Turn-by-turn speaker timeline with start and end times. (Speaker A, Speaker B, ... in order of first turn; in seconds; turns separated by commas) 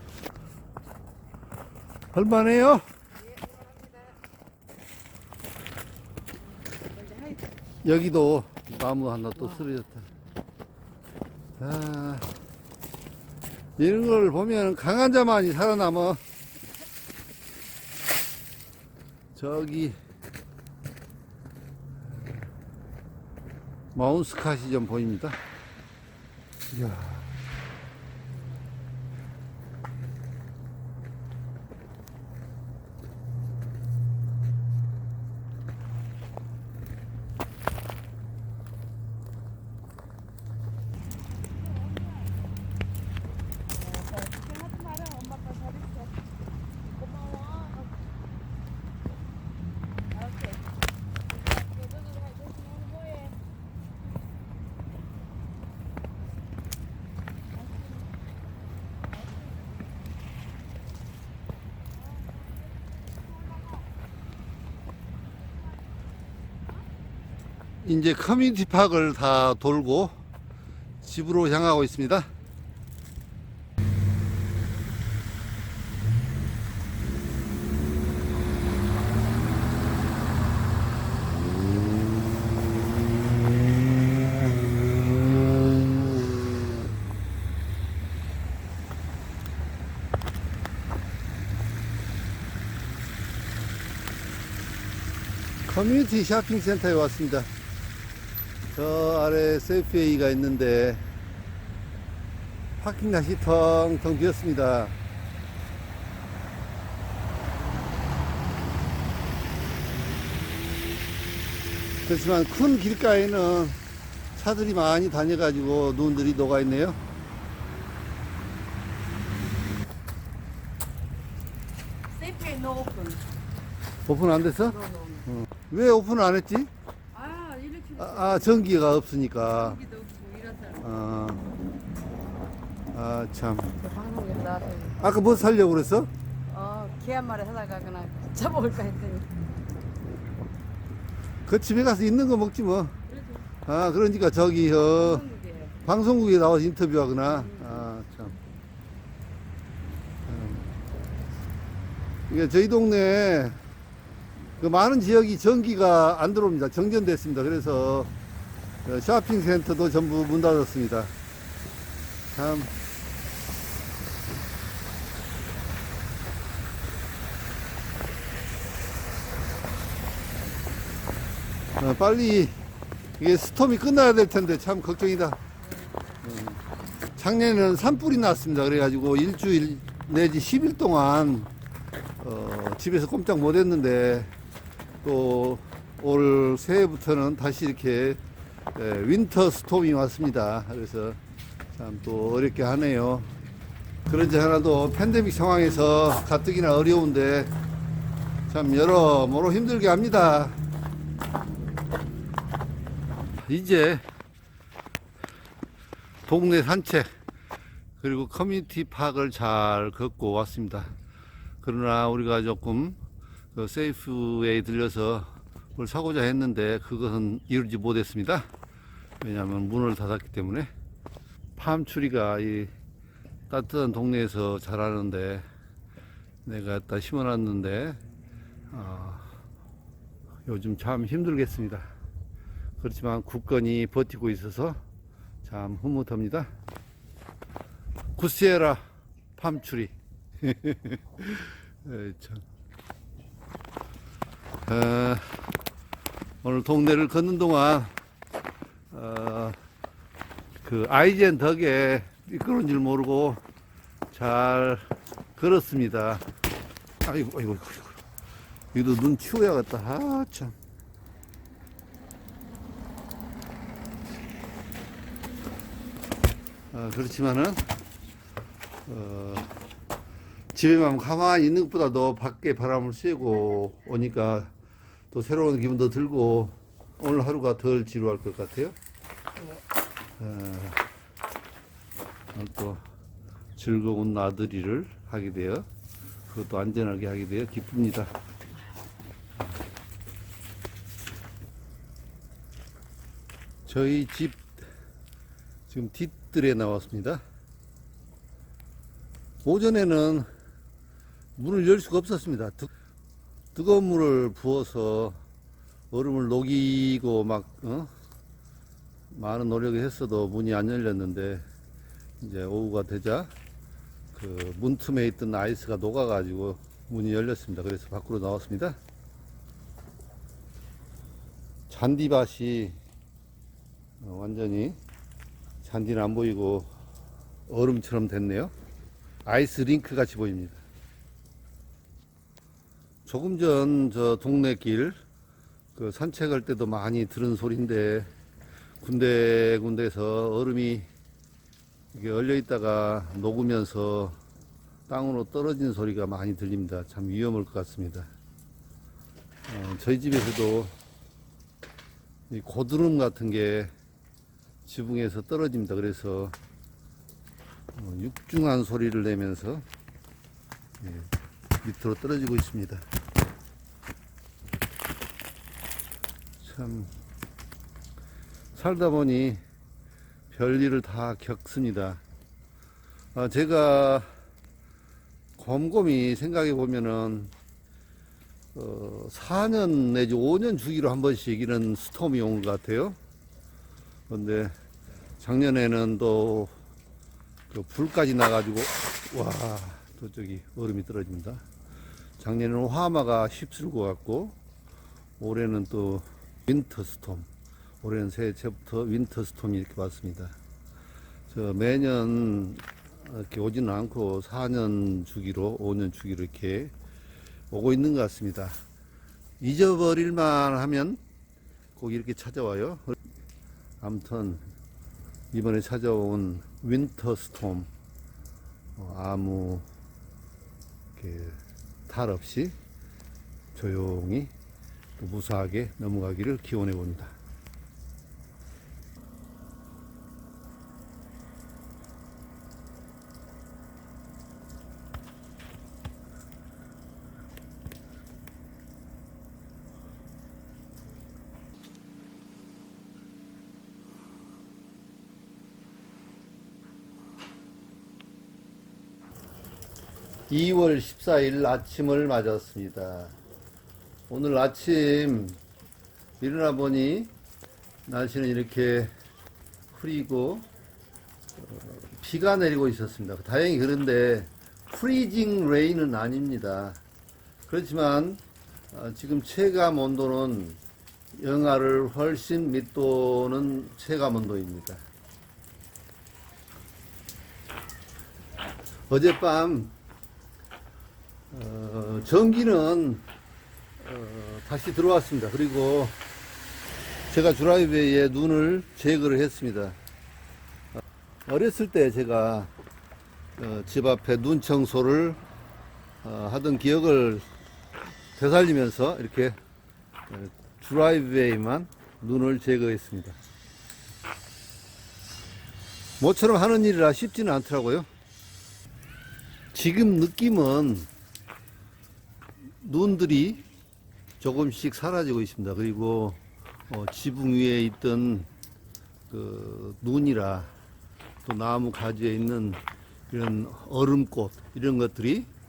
Speaker A: 2.1-2.9, Speaker A: 7.8-10.0, Speaker A: 11.6-12.3, Speaker A: 13.8-16.2, Speaker A: 19.4-20.0, Speaker A: 23.9-25.4, Speaker A: 26.7-27.3, Speaker B: 43.8-46.1, Speaker B: 47.2-47.8, Speaker B: 50.2-50.5, Speaker B: 51.7-53.3, Speaker A: 67.8-70.2, Speaker A: 71.0-72.3, Speaker A: 95.7-97.5, Speaker A: 98.7-101.0, Speaker A: 102.8-105.0, Speaker A: 112.1-113.8, Speaker A: 114.4-117.0, Speaker B: 122.1-123.2, Speaker A: 124.1-126.7, Speaker B: 124.7-125.3, Speaker B: 127.1-128.7, Speaker A: 128.0-129.8, Speaker B: 129.6-130.8, Speaker A: 130.8-131.4, Speaker A: 132.9-133.7, Speaker B: 133.8-135.0, Speaker A: 135.0-136.1, Speaker B: 136.5-139.4, Speaker A: 141.5-142.9, Speaker B: 143.1-143.4, Speaker A: 143.7-145.3, Speaker B: 144.9-145.7, Speaker A: 145.8-148.4, Speaker B: 147.5-147.7, Speaker A: 150.3-150.7, Speaker A: 152.3-153.6, Speaker A: 154.6-158.1, Speaker A: 158.8-161.1, Speaker A: 162.3-162.7, Speaker A: 171.8-172.6, Speaker A: 173.2-175.4, Speaker A: 176.2-176.6, Speaker A: 177.2-181.5, Speaker A: 182.2-184.3, Speaker A: 185.0-188.2, Speaker A: 188.8-191.2, Speaker A: 191.8-193.3, Speaker A: 194.1-197.5, Speaker A: 198.5-200.6, Speaker A: 203.4-204.0, Speaker A: 206.3-207.1, Speaker A: 208.0-210.9, Speaker A: 211.6-213.0, Speaker A: 213.6-218.5, Speaker A: 219.2-220.7, Speaker A: 221.6-222.7, Speaker A: 223.5-225.5, Speaker A: 226.4-228.0, Speaker A: 228.7-229.3, Speaker A: 230.5-231.9, Speaker A: 232.8-234.8, Speaker A: 235.4-236.5, Speaker A: 238.2-238.8, Speaker A: 239.4-242.4, Speaker A: 244.7-245.3, Speaker A: 246.4-247.9, Speaker A: 248.9-249.6, Speaker A: 250.6-253.4, Speaker A: 254.1-256.2, Speaker A: 257.0-258.0, Speaker A: 258.7-260.6, Speaker A: 266.7-267.6, Speaker A: 268.9-269.5, Speaker A: 270.5-274.5, Speaker A: 275.1-278.8, Speaker A: 280.2-280.8, Speaker A: 282.3-282.8, Speaker A: 283.6-285.7, Speaker A: 286.3-288.1, Speaker A: 293.7-294.6, Speaker A: 295.7-297.2, Speaker A: 299.4-300.3, Speaker A: 301.4-302.7, Speaker A: 303.6-305.2, Speaker A: 305.9-307.9, Speaker A: 309.1-311.4, Speaker A: 312.2-313.3, Speaker A: 314.1-318.8, Speaker A: 321.7-322.8, Speaker A: 324.0-324.8, Speaker A: 325.6-326.7, Speaker A: 327.5-328.5, Speaker A: 329.2-330.6, Speaker A: 333.1-335.0, Speaker A: 335.8-338.1, Speaker A: 338.8-340.9, Speaker A: 341.9-344.2, Speaker A: 344.9-348.1, Speaker A: 349.5-350.7, Speaker A: 352.3-353.7, Speaker A: 354.7-356.4, Speaker A: 357.7-359.6, Speaker A: 360.8-361.1, Speaker A: 361.6-362.8, Speaker A: 366.4-366.9, Speaker A: 368.6-369.4, Speaker A: 370.3-372.0, Speaker A: 373.1-374.1, Speaker A: 375.4-377.3, Speaker A: 378.6-383.0, Speaker A: 384.1-384.5, Speaker A: 385.2-386.5, Speaker A: 387.5-391.4, Speaker A: 392.2-394.4, Speaker A: 395.2-397.3, Speaker A: 397.8-400.4, Speaker A: 401.3-406.7, Speaker A: 407.5-408.6, Speaker A: 409.4-411.0, Speaker A: 411.8-412.9, Speaker A: 413.8-414.4, Speaker A: 415.3-417.7, Speaker A: 418.8-419.7, Speaker A: 421.0-422.5, Speaker A: 423.6-424.3, Speaker A: 425.0-427.1, Speaker A: 450.3-453.1, Speaker A: 454.1-455.4, Speaker A: 456.2-457.1, Speaker A: 457.9-458.9, Speaker A: 459.7-460.5, Speaker A: 461.4-466.8, Speaker A: 467.5-468.2, Speaker A: 468.7-470.6, Speaker A: 471.2-474.8, Speaker A: 478.9-479.7, Speaker A: 481.3-483.1, Speaker A: 483.8-486.0, Speaker A: 487.1-489.8, Speaker A: 491.3-492.5, Speaker A: 493.4-495.2, Speaker A: 496.0-497.3, Speaker A: 498.2-499.4, Speaker A: 500.1-503.2, Speaker A: 506.0-507.9, Speaker A: 509.5-510.9, Speaker A: 512.6-513.4, Speaker A: 514.2-518.3, Speaker A: 519.1-520.5, Speaker A: 521.2-525.3